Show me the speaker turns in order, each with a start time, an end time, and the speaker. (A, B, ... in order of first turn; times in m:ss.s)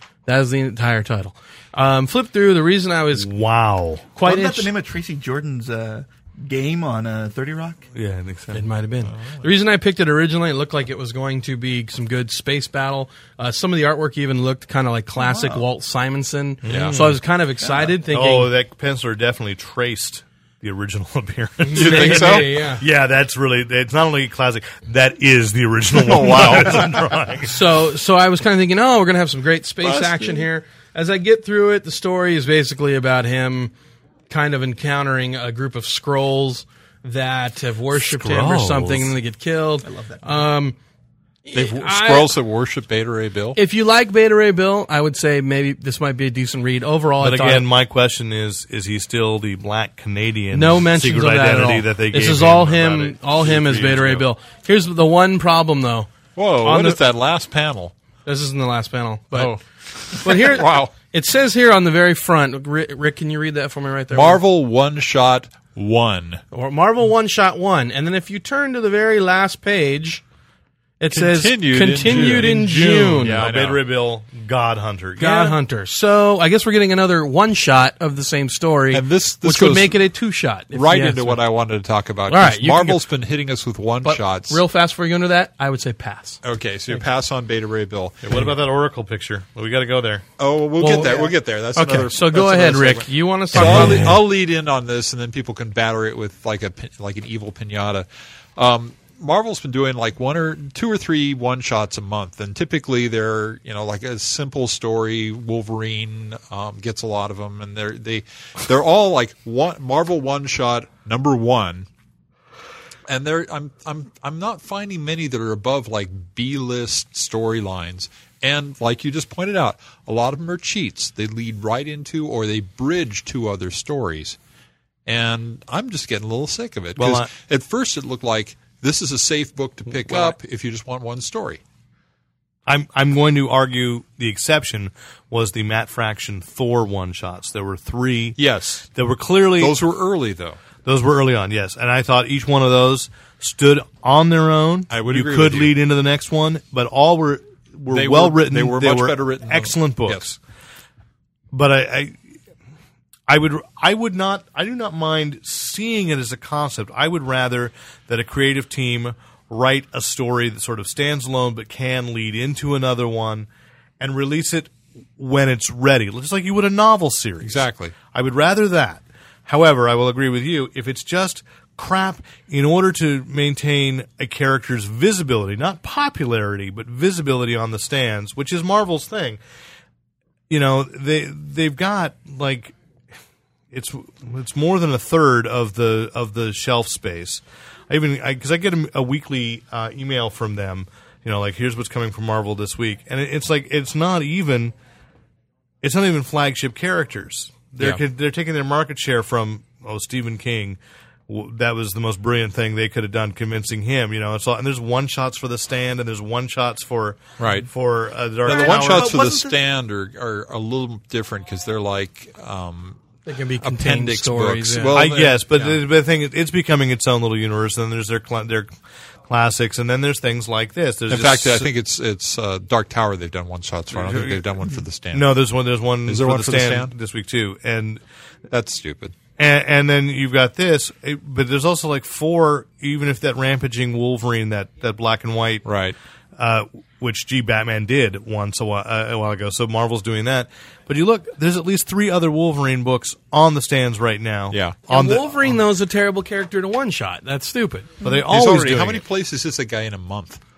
0:00.3-0:03.3 A
0:03.1-0:04.0 B
0:04.2-0:04.7 A
0:04.2-0:07.8 C
0:08.0-0:08.6 B
0:08.5-0:18.5 A
0:09.0-0:09.5 D
0:15.2-0:15.6 C
0:16.6-0:17.2 B
0:16.7-0:17.0 D
0:18.1-0:27.6 B
0:21.6-0:22.8 A
0:21.8-0:22.6 D
0:25.9-0:26.9 D
0:27.4-0:33.7 A
0:34.3-0:40.8 A
0:37.9-0:39.2 B
0:39.8-0:40.4 C
0:41.4-0:42.4 A
0:41.5-0:43.6 D
0:43.6-0:47.7 A
0:47.2-0:54.3 B
0:50.5-0:57.0 A
0:56.4-0:57.9 D
0:58.2-0:59.6 A
0:59.3-1:00.9 D
1:00.2-1:04.4 A
1:04.1-1:06.4 D
1:06.5-1:10.2 A
1:11.0-1:13.4 A
1:11.1-1:13.8 D
1:12.1-1:12.6 B
1:13.2-1:15.6 B
1:15.2-1:21.4 A
1:18.9-1:20.0 D
1:20.7-1:24.6 D
1:22.3-1:23.0 A
1:24.0-1:26.4 A
1:26.4-1:28.5 D
1:28.3-1:30.2 B
1:30.4-1:51.9 D
1:30.8-1:34.2 A
1:31.0-1:31.3 C
1:33.6-1:34.0 B
1:53.1-2:04.4 D
2:05.1-2:11.6 D
2:07.0-2:07.3 B
2:10.1-2:10.4 B
2:12.7-2:18.4 B
2:18.4-2:18.9 D
2:18.9-2:19.8 B
2:19.6-2:20.6 D
2:20.8-2:30.4 B
2:24.9-2:25.8 D
2:27.9-2:30.4 D
2:31.5-2:32.2 B
2:33.3-2:43.5 B
2:44.0-2:59.4 B
2:47.4-2:48.0 D
3:00.5-3:02.8 B
3:03.7-3:14.7 B
3:15.8-3:29.2 B
3:27.4-3:27.7 D
3:28.5-3:33.0 D
3:28.5-3:29.6 C
3:33.3-3:35.1 A
3:33.6-3:35.8 D
3:34.9-3:38.7 B
3:39.3-3:41.7 B
3:41.1-3:45.3 D
3:43.9-3:44.4 B
3:45.1-3:48.0 B
3:46.1-3:46.9 D
3:48.5-3:49.2 D
3:49.4-3:55.6 B
3:55.6-3:56.0 D
3:56.4-4:05.6 B
4:04.5-4:04.8 D
4:04.9-4:07.9 A
4:08.0-4:09.0 B
4:08.3-4:10.4 D